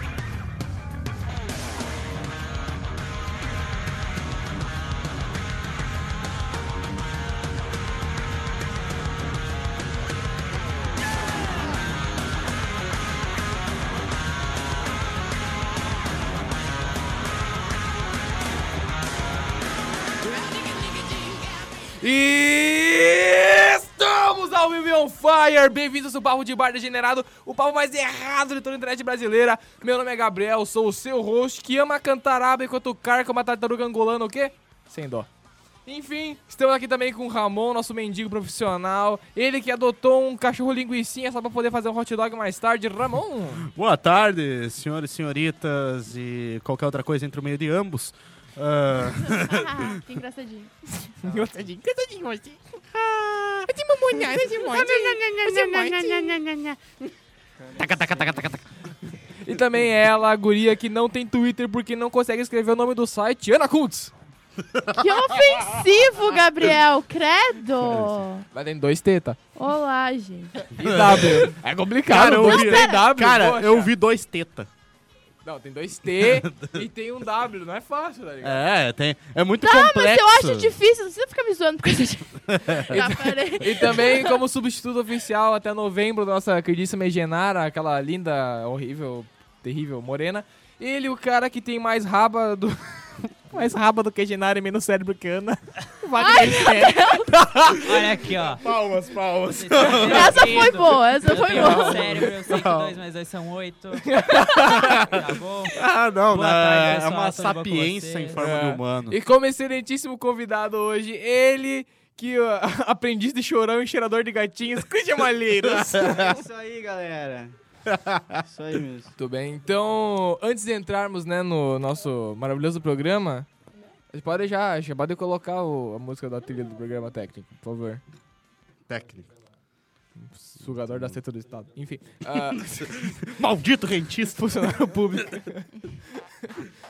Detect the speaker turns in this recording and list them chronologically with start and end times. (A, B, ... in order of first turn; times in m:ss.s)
0:20.5-0:35.3 A
0:35.9-0:43.7 A
0:43.6-0:50.0 B
0:49.2-0:50.7 C
0:51.0-0:52.8 A
0:52.9-0:57.1 B
0:53.7-0:56.4 A
0:57.6-0:58.5 D
0:57.8-0:58.6 A
0:59.3-1:04.1 A
1:04.6-1:05.9 B
1:05.0-1:08.4 C
1:08.5-1:09.4 A
1:09.6-1:10.7 C
1:10.7-1:13.9 A
1:10.8-1:11.6 B
1:12.1-1:14.7 B
1:12.2-1:13.0 C
1:15.4-1:18.6 A
1:16.2-1:16.8 B
1:18.4-1:20.7 B
1:19.6-1:24.4 C
1:22.5-1:22.8 B
1:22.9-1:37.8 A
1:36.2-1:37.4 C
1:37.8-1:38.7 E
1:38.4-1:40.7 B
1:39.5-1:44.4 E
1:40.0-1:42.3 C
1:41.4-1:42.3 A
1:42.4-1:43.0 B
1:44.0-1:45.0 A
1:44.6-1:45.2 B
1:45.0-1:48.4 E
1:45.7-1:49.2 B
1:48.4-1:56.4 A
1:55.8-1:56.2 B
1:56.0-1:57.6 D
1:57.9-1:58.4 B
1:58.4-1:59.1 D
1:59.2-2:03.5 A
2:04.1-2:08.0 A
2:08.9-2:09.3 B
2:10.2-2:13.1 A
2:10.9-2:11.2 B
2:12.3-2:15.5 B
2:14.3-2:16.6 A